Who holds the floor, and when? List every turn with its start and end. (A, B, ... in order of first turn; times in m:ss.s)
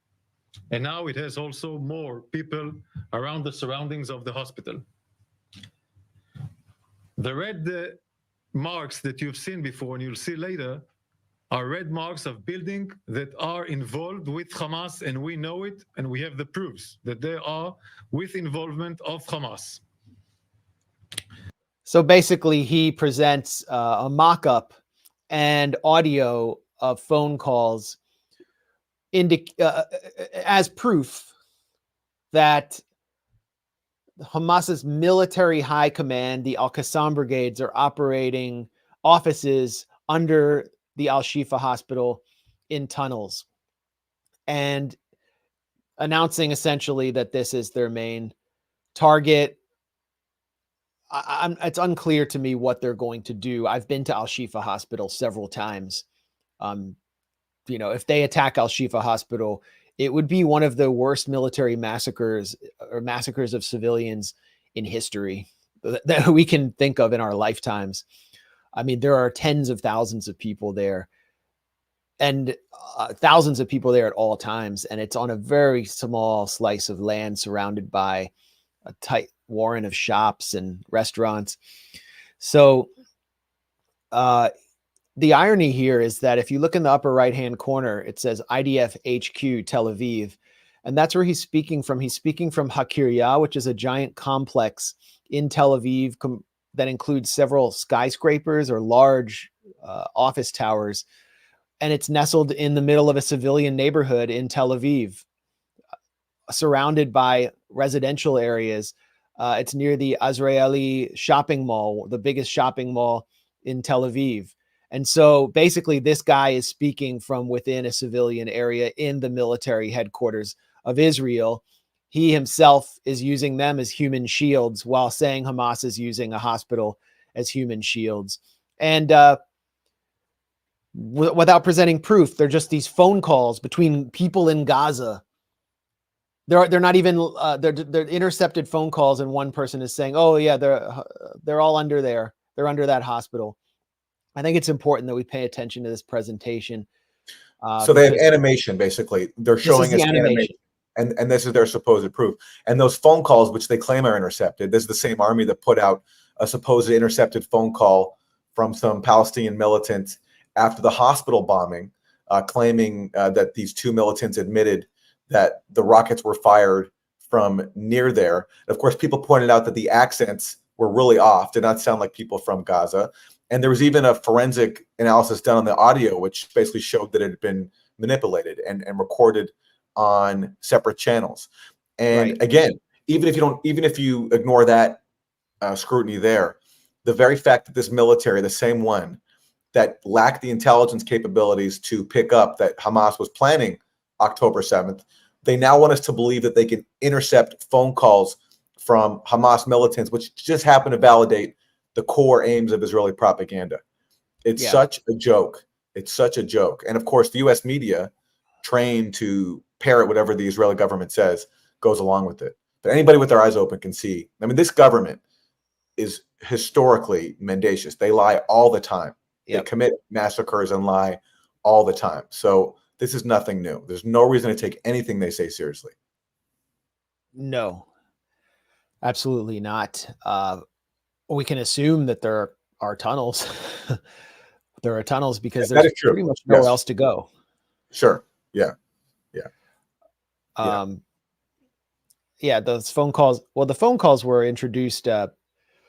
0:00.7-0:04.8 A
0:07.2-0:08.0 A
0:08.5-0:10.8 A
0:11.5-0:19.8 A
0:21.9-0:24.7 B
0:25.3-0:28.0 B
0:29.1-0:31.3 B
0:32.3-0:32.8 B
0:34.2-0:43.4 B
0:44.5-0:45.0 B
0:46.0-0:48.3 B
0:49.0-0:49.6 B
0:51.1-0:56.0 B
0:56.6-0:57.0 B
0:57.7-1:08.0 B
1:08.8-1:11.1 B
1:12.2-1:18.3 B
1:18.9-1:21.6 B
1:22.4-1:22.9 B
1:24.1-1:24.5 B
1:25.2-1:41.1 B
1:41.8-1:45.2 B
1:46.5-2:09.4 B
2:11.0-2:15.2 B
2:16.5-2:23.6 B
2:24.4-2:26.9 B
2:27.6-2:28.3 B
2:27.8-3:01.5 C
2:29.6-2:30.5 B
3:02.0-3:05.0 C
3:02.1-3:02.4 B
3:05.6-3:09.2 C
3:09.7-3:23.8 C
3:24.4-3:28.1 C
3:24.6-3:24.8 B
3:28.6-3:35.2 C
3:36.0-3:45.9 C
3:47.4-3:47.9 B
3:49.0-3:50.6 B
3:51.3-3:54.0 B
3:54.8-3:57.3 B
3:55.6-3:56.7 C
3:57.9-3:58.7 C
4:00.6-4:01.0 B
4:02.4-4:05.3 B